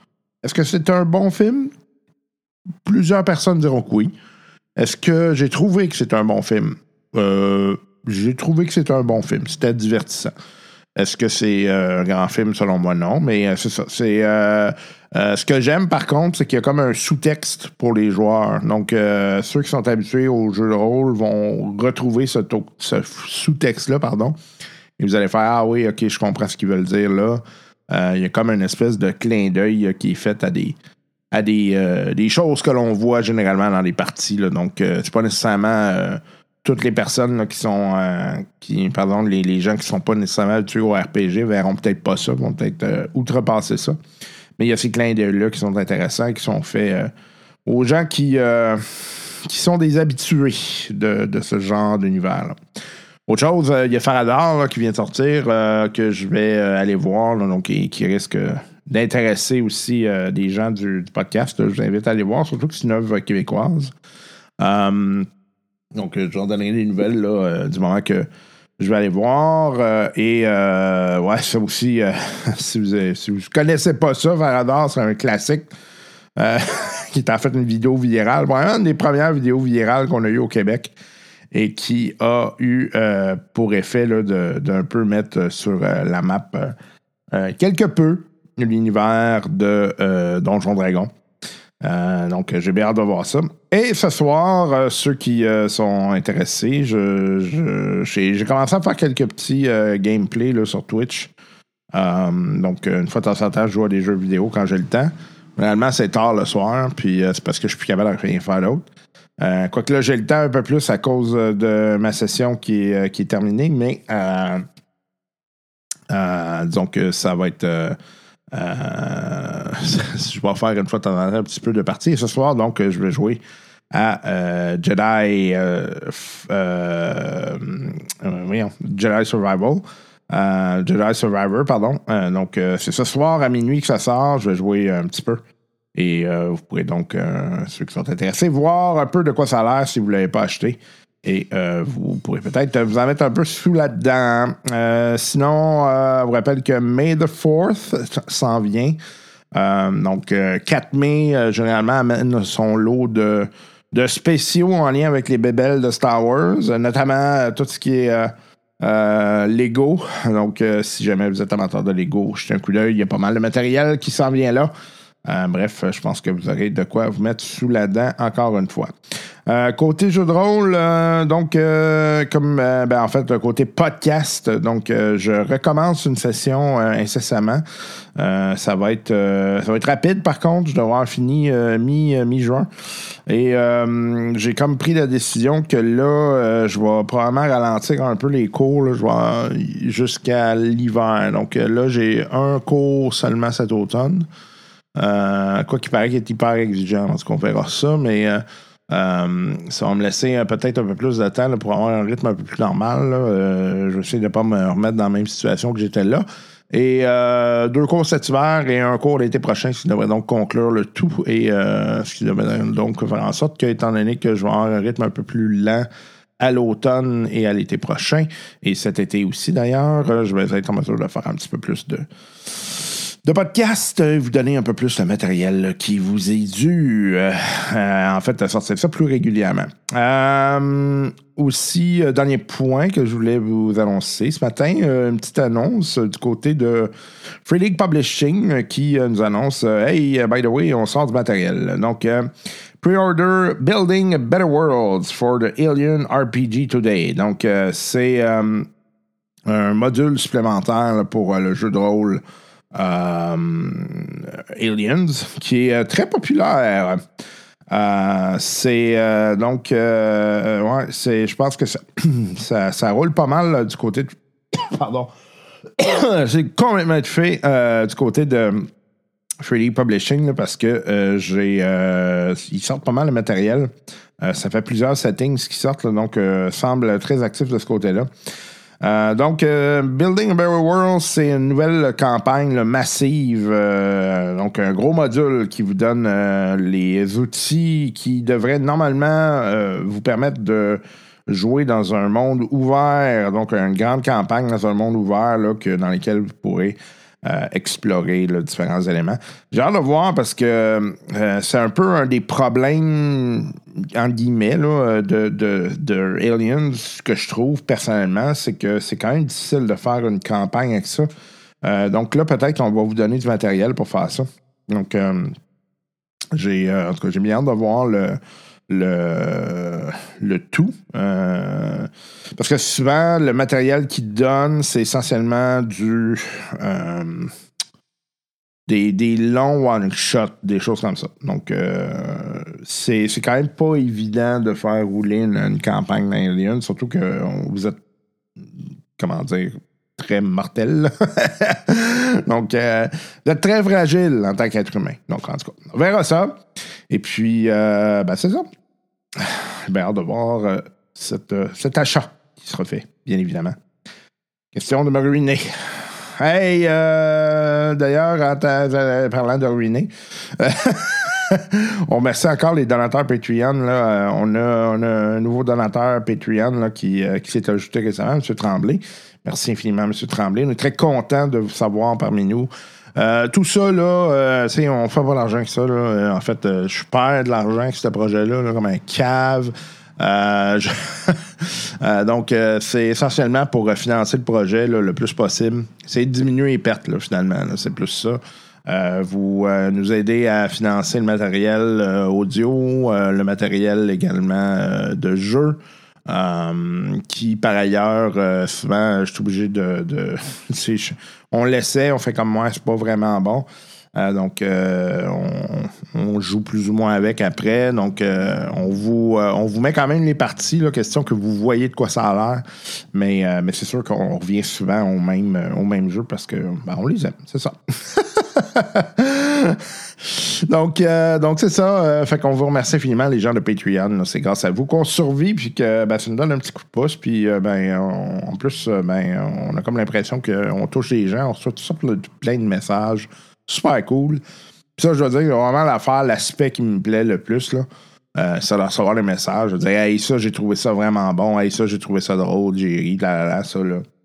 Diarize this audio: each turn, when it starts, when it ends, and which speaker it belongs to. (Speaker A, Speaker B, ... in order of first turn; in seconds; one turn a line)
Speaker A: 0.4-1.7
Speaker A: 2.8-4.1
Speaker A: 4.8-10.3
Speaker A: 10.9-24.4
Speaker A: 25.0-30.8
Speaker A: 31.3-44.0
Speaker A: 44.6-47.1
Speaker A: 47.6-52.6
Speaker A: 53.3-63.9
Speaker A: 64.6-65.3
Speaker A: 65.9-75.7
Speaker A: 76.3-80.9
Speaker A: 81.5-86.8
Speaker A: 87.3-91.1
Speaker A: 91.8-101.3
Speaker A: 101.9-108.9
Speaker A: 109.4-114.6
Speaker A: 116.1-118.0
Speaker A: 118.5-123.4
Speaker A: 123.9-135.4
Speaker A: 135.9-149.0
Speaker A: 149.5-164.7
Speaker A: 165.2-168.9
Speaker A: 169.4-177.6
Speaker A: 178.2-182.7
Speaker A: 183.2-194.3
Speaker A: 194.9-215.9
Speaker A: 216.4-236.9
Speaker A: 237.4-248.7
Speaker A: 249.4-257.0
Speaker A: 257.7-265.1
Speaker A: 265.8-268.7
Speaker A: 269.4-278.1
Speaker A: 278.8-311.1
Speaker A: 311.6-315.4
Speaker A: 316.3-327.3
Speaker A: 328.6-337.8
Speaker A: 338.4-346.4
Speaker A: 346.9-348.5
Speaker A: 349.1-353.6
Speaker A: 354.5-434.2
Speaker A: 434.8-443.8